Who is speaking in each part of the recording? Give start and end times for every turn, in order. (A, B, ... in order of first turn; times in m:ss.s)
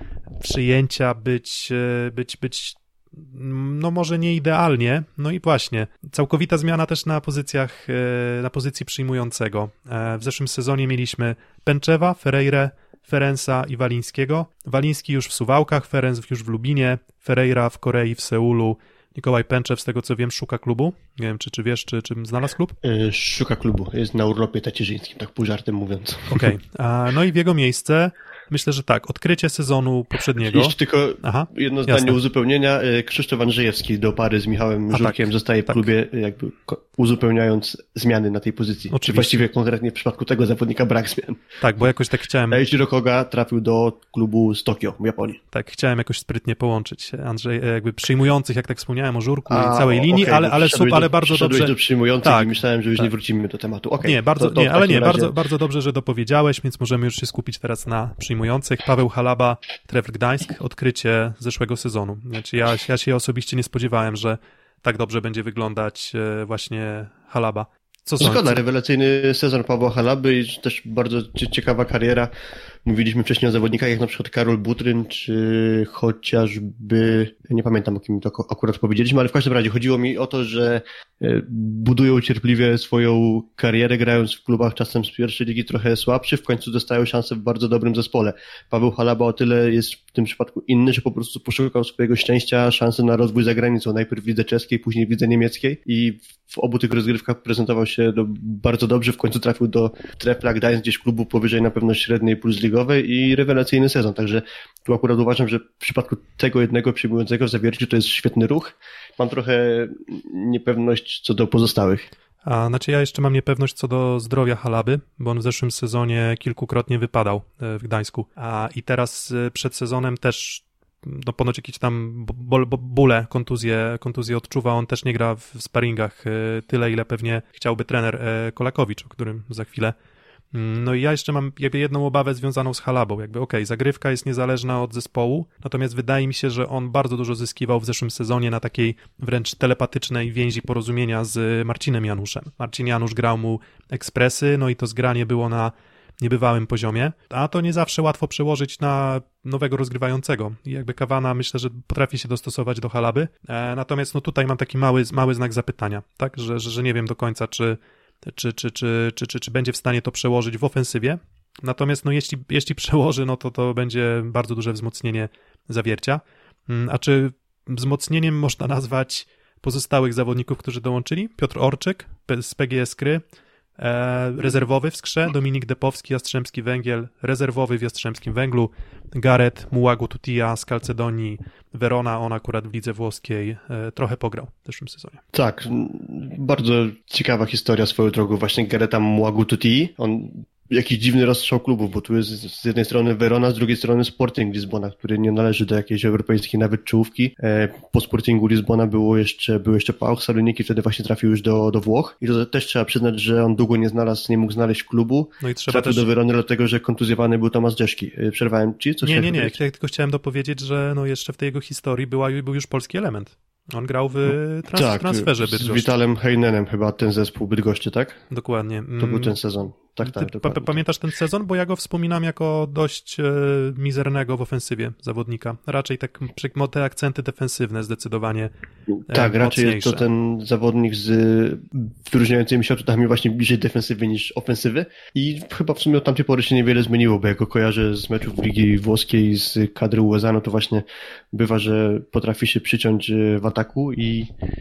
0:00.4-0:22.7 A
0:22.8-0:26.5 B
0:26.3-0:32.2 A
0:30.4-0:41.4 B
0:34.9-0:35.9 A
0:38.9-0:39.4 A
0:41.6-0:42.6 A
0:42.5-0:45.4 B
0:45.5-0:53.1 A
0:49.5-0:55.3 B
0:54.0-1:08.6 A
1:08.2-1:12.3 B
1:12.8-1:52.1 B
1:52.4-2:09.9 A
2:10.5-2:53.2 A
2:53.8-3:05.2 A
3:05.3-3:29.6 B
3:25.4-3:26.1 A
3:29.0-3:35.9 A
3:34.7-3:38.2 B
3:38.3-3:39.4 A
3:39.0-3:40.8 B
3:40.0-3:48.5 A
3:49.1-3:50.0 A
3:49.1-4:04.3 B